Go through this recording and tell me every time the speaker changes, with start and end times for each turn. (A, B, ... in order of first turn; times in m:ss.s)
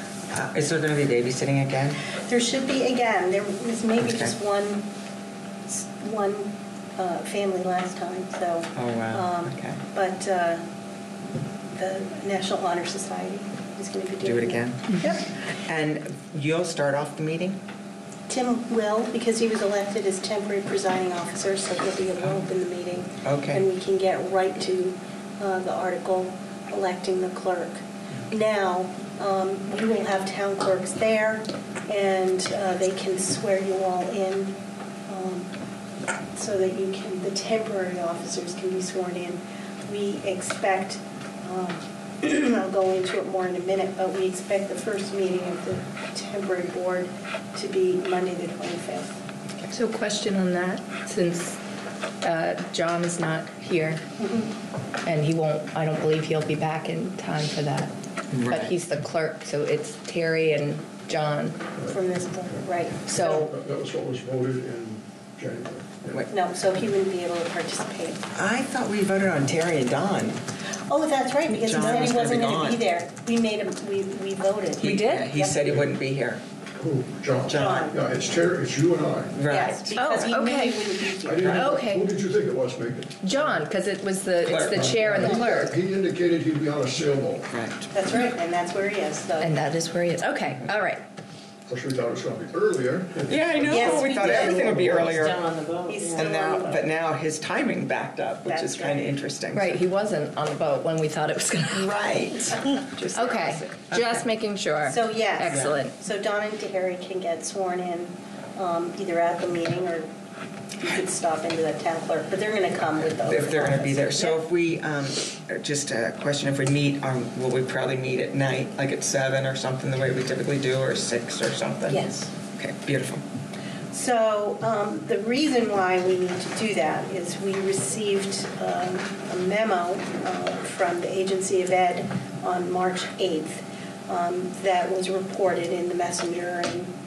0:00.3-0:02.0 A
0:02.2-0:04.9 B
0:04.0-0:04.4 A
0:05.7-0:10.6 B
0:08.8-0:09.8 A
0:11.7-0:15.2 B
0:14.2-0:17.6 A
0:18.3-0:34.6 B
0:23.2-0:23.6 A
0:35.1-0:35.5 B
0:36.3-0:49.2 B
0:49.7-0:51.6 C
0:52.2-0:54.0 C
0:54.2-0:54.5 B
0:55.0-1:01.6 C
0:58.3-0:58.7 A
1:01.8-1:02.6 D
1:01.9-1:03.5 B
1:03.1-1:03.5 C
1:03.2-1:06.2 D
1:06.3-1:08.3 B
1:08.4-1:10.4 A
1:10.9-1:15.6 B
1:11.5-1:12.8 A
1:14.8-1:16.4 A
1:14.8-1:15.3 C
1:16.8-1:19.3 D
1:17.5-1:17.9 A
1:17.5-1:18.0 B
1:19.3-1:20.3 A
1:19.5-1:21.7 B
1:20.0-1:20.8 C
1:21.2-1:23.2 D
1:21.4-1:21.7 A
1:21.4-1:22.1 C
1:23.2-1:25.8 C
1:24.4-1:25.1 A
1:24.7-1:27.5 D
1:25.2-1:25.6 B
1:27.5-1:27.9 A
1:27.9-1:29.5 B
1:29.4-1:31.0 C
1:31.7-1:33.9 D
1:33.3-1:35.5 A
1:33.7-1:34.6 B
1:33.8-1:36.3 E
1:35.8-1:36.8 B
1:36.2-1:39.8 A
1:38.4-1:39.0 B
1:39.5-1:42.0 C
1:41.7-1:44.3 A
1:43.1-1:46.0 C
1:44.9-1:50.1 B
1:45.5-1:45.8 A
1:50.8-1:54.4 B
1:53.1-2:03.2 A
2:01.9-2:02.3 B
2:03.9-2:16.9 B